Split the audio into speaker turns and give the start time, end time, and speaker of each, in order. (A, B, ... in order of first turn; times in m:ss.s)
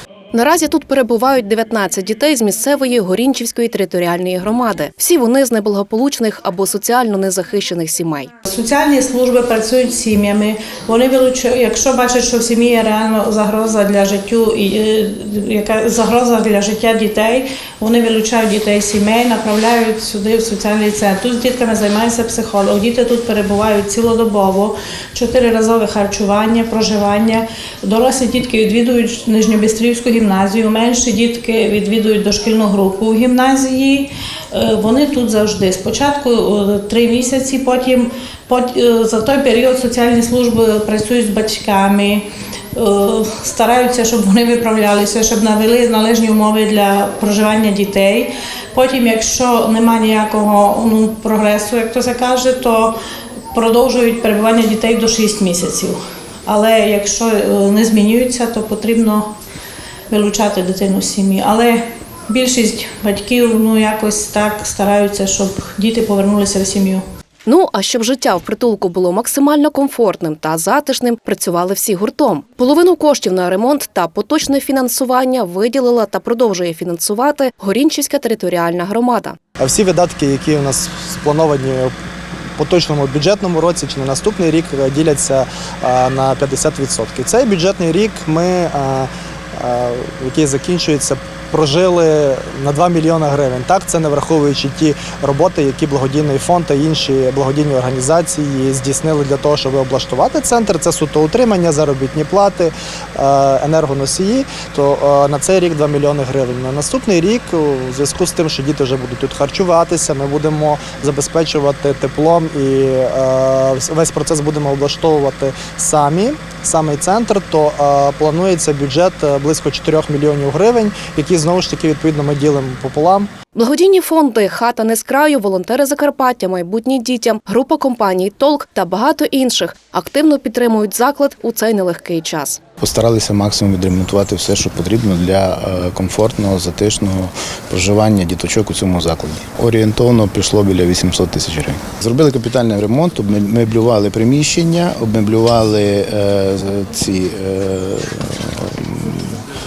0:00.3-0:08.3 A
0:08.5-0:53.0 B
0:53.5-0:59.3 B
1:00.1-1:07.0 B
1:07.5-1:19.4 A
1:19.6-1:21.9 C
1:22.6-2:03.3 C
2:03.5-2:12.6 A
2:12.8-2:29.3 D